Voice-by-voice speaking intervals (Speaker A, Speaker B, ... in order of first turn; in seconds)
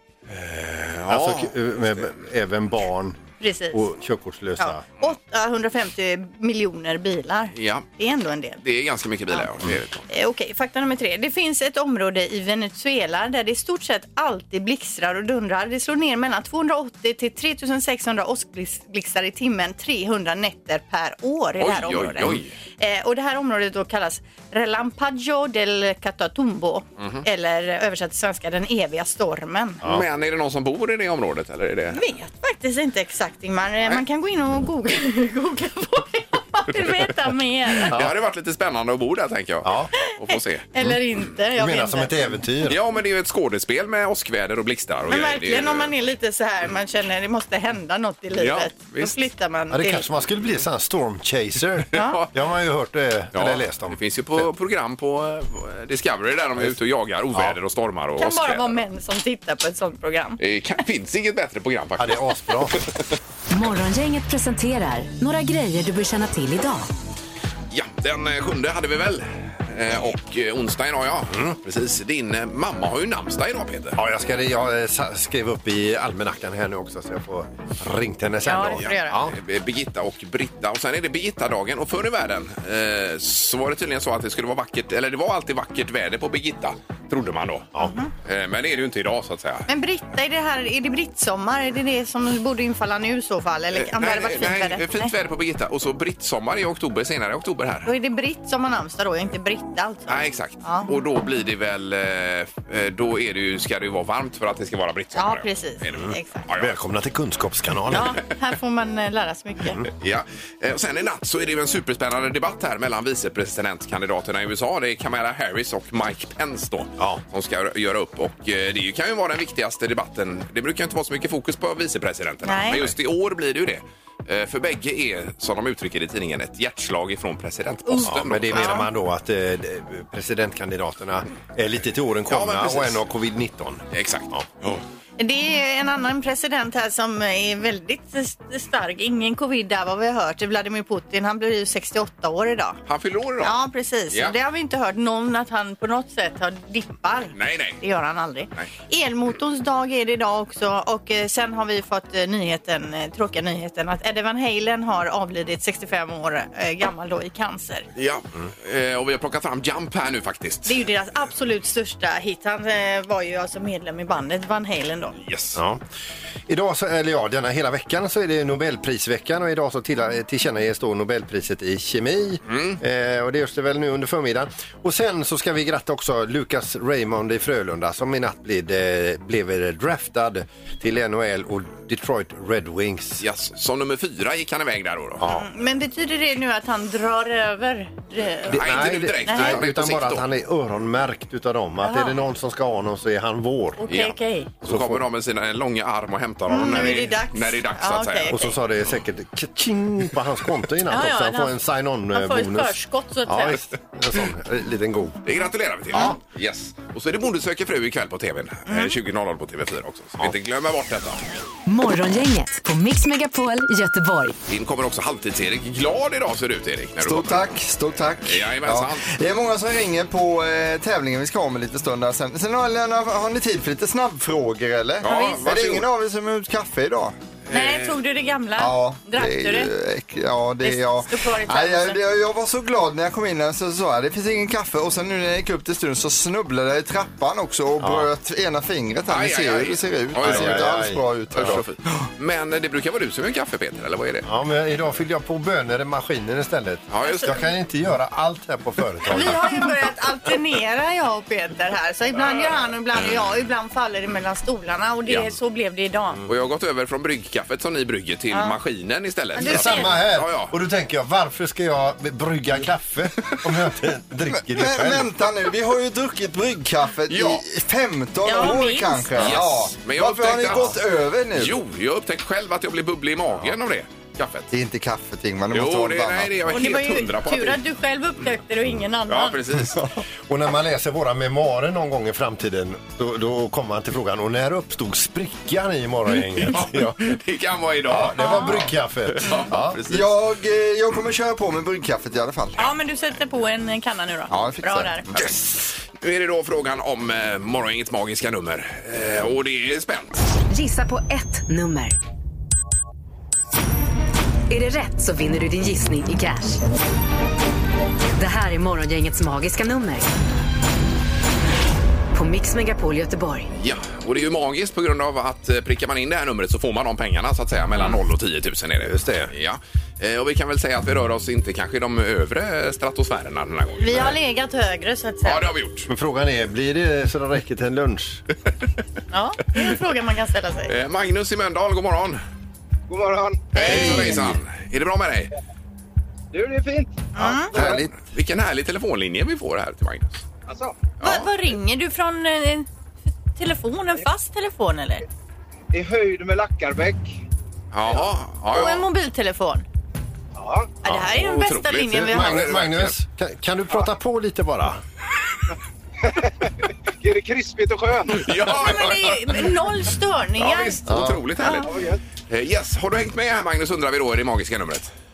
Speaker A: 0.3-2.1, 7.5-7.9, 8.6-10.1, 21.6-22.5, 27.0-27.2, 29.8-32.0, 37.8-40.7, 42.7-45.9, 48.4-49.1, 51.9-52.3, 53.3-58.8, 60.4-62.9, 67.7-74.0, 78.8-87.7, 88.2-89.7, 93.8-97.9, 100.1-106.8, 109.9-128.9, 132.3-133.0, 133.9-134.8, 142.9-143.6, 147.3-147.8, 158.0-160.8, 165.2-165.6, 172.5-172.8, 183.2-185.2, 188.4-190.2, 193.9-198.5, 205.2-211.2, 214.5-217.4, 218.2-219.1, 225.0-225.9, 227.5-227.9, 239.1-240.8, 241.3-244.3, 246.9-247.4, 255.1-255.3, 256.3-260.5, 267.1-267.4, 269.2-270.8, 271.4-274.5, 275.5-277.6, 279.1-279.8, 286.4-290.1, 295.1-300.2, 313.5-324.2, 325.2-325.9, 330.7-332.2, 333.5-335.3, 338.0-340.2, 341.0-341.3, 347.7-348.9, 350.9-353.0, 358.1-359.4, 360.4-361.7, 362.3-364.9
Speaker B: 1.1-3.2, 3.7-4.8, 39.6-39.9, 41.6-42.8, 49.7-54.5, 62.0-62.8, 74.0-79.3, 106.0-108.2, 128.1-134.5, 165.6-165.8, 166.5-183.2, 185.2-185.5, 188.5-193.9, 194.6-195.1, 198.3-205.2, 237.8-238.1, 240.2-241.6, 244.2-249.7, 259.4-265.1, 280.3-287.0, 287.9-289.8, 318.8-319.3, 325.9-328.2, 333.6-334.4, 351.9-354.8, 360.9-361.2
Speaker C: 3.4-3.8, 4.6-8.6, 10.1-29.8, 31.9-38.0, 40.7-42.4, 45.1-50.1, 51.9-52.2, 58.2-60.4, 78.4-79.2, 87.8-88.1, 89.7-95.1, 97.9-100.9, 105.2-106.5, 107.9-109.8, 122.5-122.9, 127.9-128.9, 135.2-142.8, 143.4-157.9, 160.7-165.2, 185.3-189.6, 191.8-192.2, 193.8-194.5, 196.5-198.6, 200.9-201.6, 202.1-203.6, 208.7-208.9, 227.5-229.7, 230.6-232.0, 247.1-247.4, 249.1-256.2, 258.3-258.6, 259.4-260.0, 268.2-269.4, 276.5-279.4, 288.2-288.6, 292.6-295.1, 323.8-325.5, 329.1-330.7, 333.6-334.2, 337.1-337.5, 341.0-342.7, 343.4-345.0, 348.5-349.6, 350.8-352.5, 358.5-361.7
Speaker D: 63.5-66.9, 211.7-214.4, 300.5-302.0, 304.5-306.6, 308.2-310.1, 312.1-313.5
Speaker E: 217.0-227.2, 228.6-241.6, 264.3-271.6, 274.5-276.3, 289.9-292.7, 294.3-295.2, 337.2-337.9
Speaker F: 332.9-334.0, 336.3-337.8, 340.5-340.8, 345.7-347.2, 350.4-350.8, 356.0-358.6, 361.6-362.0